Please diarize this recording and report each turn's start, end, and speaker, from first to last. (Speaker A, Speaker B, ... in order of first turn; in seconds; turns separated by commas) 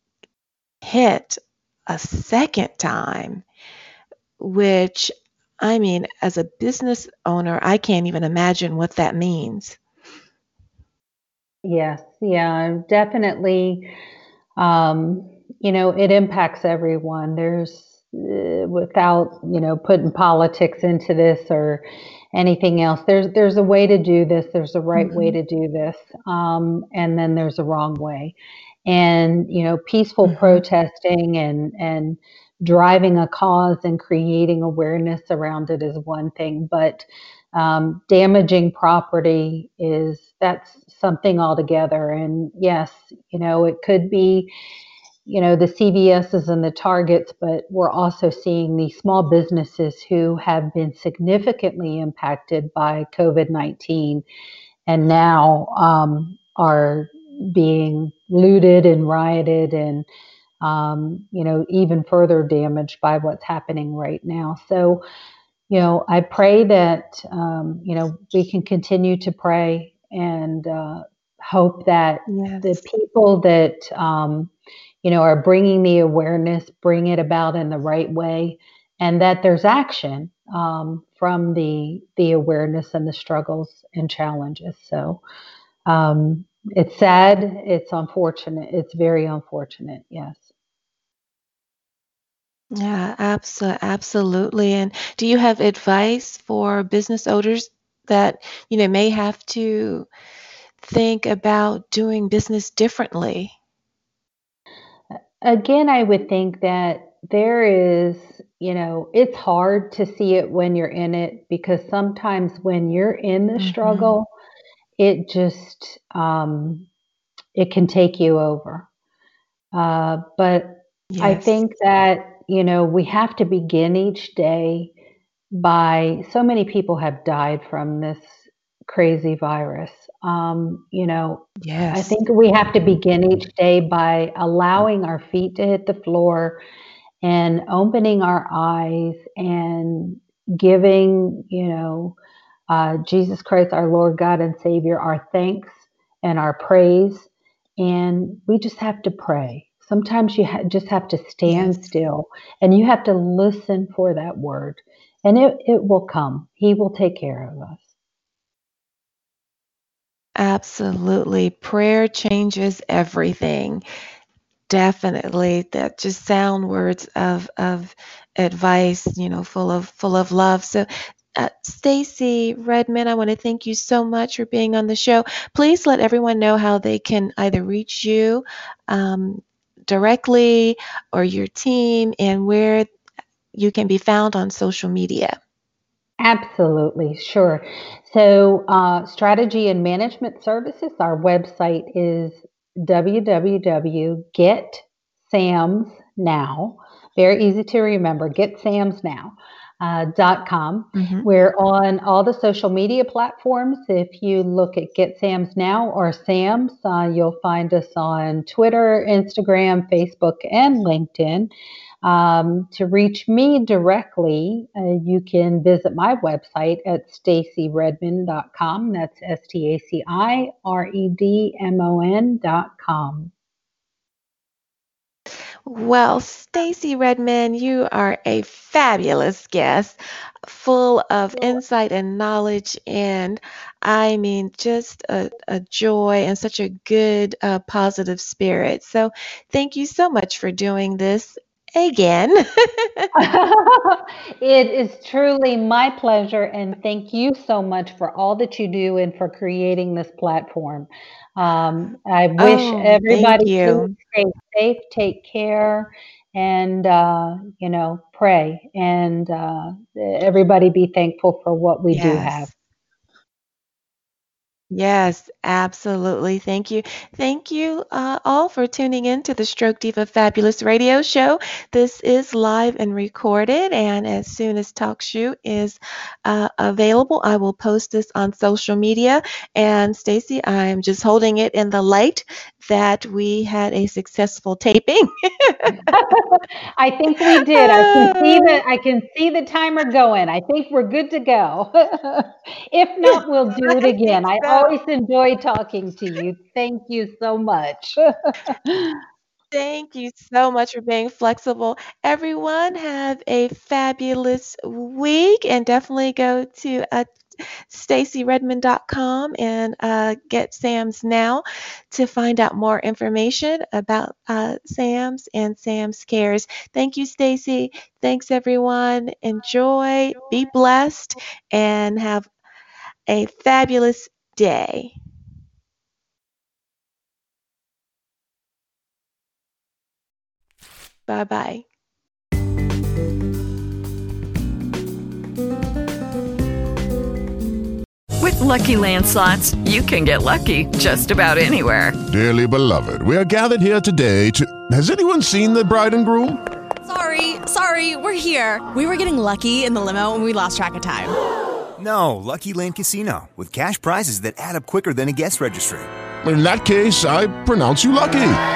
Speaker A: 0.8-3.4, Speaker A: 4.4-9.8, Speaker B: 11.6-13.9, Speaker B: 14.6-28.3, Speaker A: 25.0-25.4, Speaker B: 28.9-44.5, Speaker A: 30.2-30.6, Speaker B: 45.2-54.2, Speaker B: 54.9-60.0, Speaker B: 60.6-65.0, Speaker B: 65.7-74.5, Speaker A: 72.3-72.8, Speaker B: 75.0-85.2, Speaker B: 85.8-90.5, Speaker A: 92.7-100.1, Speaker A: 100.8-103.5, Speaker B: 105.4-114.3, Speaker A: 113.6-114.2, Speaker B: 115.0-116.8, Speaker B: 117.5-118.9, Speaker B: 119.7-124.9, Speaker A: 121.1-121.6, Speaker B: 125.5-128.3, Speaker B: 128.9-136.6, Speaker A: 131.6-132.1, Speaker B: 137.2-142.2, Speaker B: 142.7-157.8, Speaker A: 151.5-151.8, Speaker A: 160.3-163.8, Speaker A: 164.7-182.9, Speaker A: 183.5-185.4, Speaker B: 186.2-211.5, Speaker A: 200.9-201.2, Speaker B: 212.0-223.3, Speaker A: 225.7-243.1, Speaker B: 243.1-262.5, Speaker A: 252.4-253.9, Speaker A: 261.9-262.5, Speaker A: 264.7-285.9, Speaker B: 285.9-297.9, Speaker A: 287.1-288.6, Speaker A: 293.0-294.7, Speaker B: 298.5-299.0, Speaker A: 299.5-322.3, Speaker A: 323.1-324.9, Speaker A: 331.1-331.6, Speaker C: 338.2-341.9, Speaker D: 342.1-346.4, Speaker E: 346.8-351.1, Speaker F: 351.8-355.9, Speaker D: 356.2-358.4